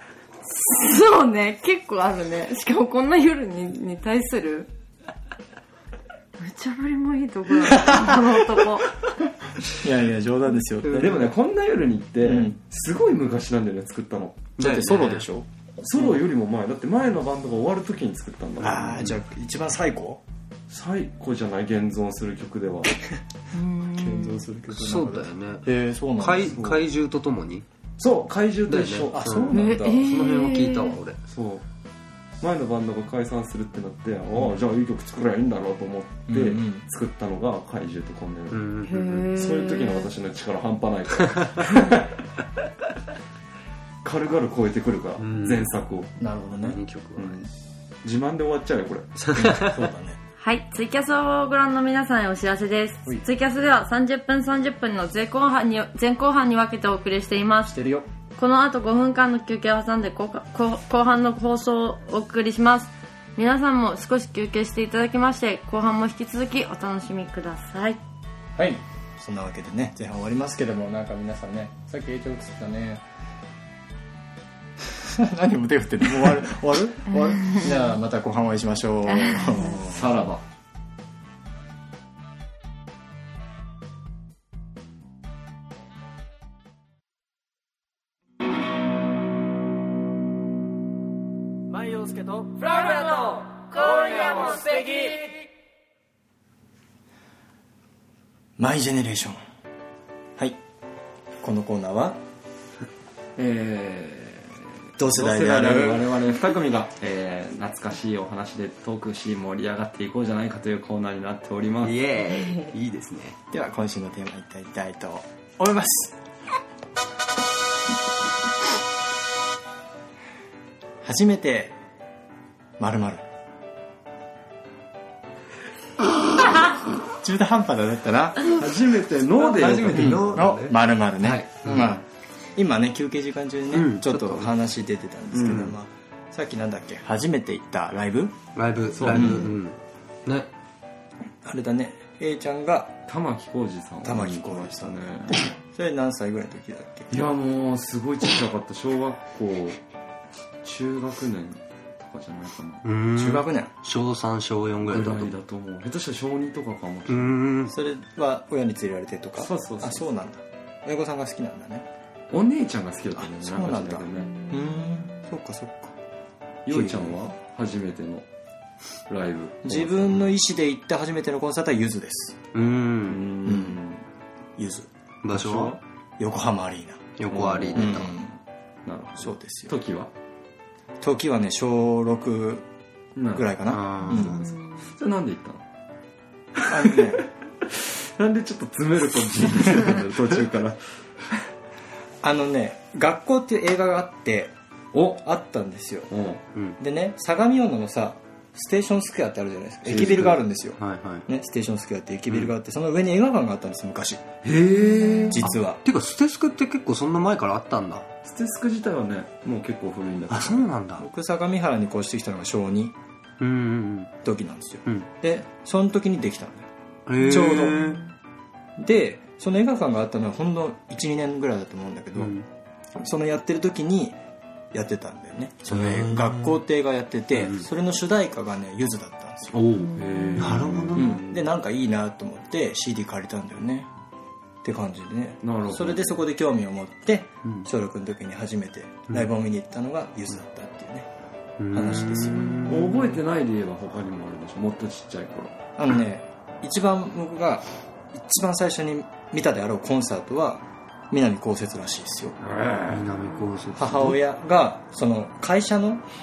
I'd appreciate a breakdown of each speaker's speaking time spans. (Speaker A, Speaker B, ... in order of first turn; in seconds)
Speaker A: 0.5-4.7, 6.4-9.0, 23.5-24.5, 29.5-31.0, 38.9-40.1, 50.4-57.8, 58.4-68.0, 77.1-77.7, 79.1-79.8, 112.3-112.7, 164.2-165.1, 184.3-184.9, 204.7-205.4, 217.7-218.0, 229.8-231.0
Speaker B: 7.7-8.2, 9.7-11.3, 12.2-12.6, 14.6-15.5, 18.6-20.2, 23.9-26.6, 29.1-30.3, 36.3-36.8, 46.2-46.8, 49.3-50.2, 57.6-58.1, 68.6-73.0, 74.9-80.2, 98.6-99.4, 101.4-102.2, 105.0-106.2, 113.5-116.2, 121.0-121.8, 122.8-123.2, 126.5-128.6, 129.9-132.0, 132.6-138.4, 139.1-139.5, 141.4-143.0, 144.0-147.2, 153.2-153.7, 157.7-161.9, 163.2-165.9, 166.7-167.1, 169.7-172.4, 173.4-173.8, 174.6-174.9, 176.2-177.1, 177.8-178.3, 179.2-179.7, 181.0-182.7, 183.3-184.4, 186.7-187.3, 192.2-194.5, 195.2-196.1, 196.8-204.2, 205.3-205.8, 211.0-212.9, 214.2-217.9, 218.8-222.3, 223.0-224.2, 224.7-229.8, 230.9-233.9, 234.6-241.1, 241.7-242.8, 245.8-252.4, 253.8-256.0
Speaker C: 10.8-11.3, 14.6-15.3, 18.6-19.2, 24.7-25.7, 26.2-27.6, 28.7-31.2, 38.5-39.3, 45.2-45.7, 46.6-47.5, 49.2-49.9, 111.8-113.4, 129.4-132.0, 133.7-134.5, 138.6-140.5, 152.8-155.3, 157.1-157.8, 172.5-173.2, 175.2-175.8, 177.2-178.1, 183.7-184.4, 200.3-201.3, 205.8-208.1, 210.3-211.1, 213.4-214.1, 217.1-218.0, 222.2-222.5, 225.7-226.6, 227.4-227.7, 229.5-231.4, 241.6-243.2, 252.9-254.2
Speaker D: 10.9-14.5, 15.8-19.0, 20.7-23.0, 26.4-26.8, 28.0-29.8, 31.3-31.6, 32.4-38.7, 39.3-42.1, 44.0-46.1, 47.2-47.5, 48.0-49.2, 79.8-80.4, 103.4-112.0, 128.4-130.4, 135.3-135.7, 138.9-139.6, 143.1-145.5, 147.1-149.8, 150.6-152.8, 154.8-157.4, 159.4-160.1, 162.3-164.4, 166.7-168.2, 169.1-170.3, 173.1-174.0, 175.3-175.8, 177.3-178.2, 178.9-180.1, 183.2-183.5, 184.0-185.6, 186.6-190.8, 194.9-195.2, 196.1-196.4, 199.8-200.4, 204.4-205.5, 208.2-210.7, 229.9-231.1, 235.4-236.2, 242.7-245.6, 252.4-253.1
Speaker E: 91.7-95.4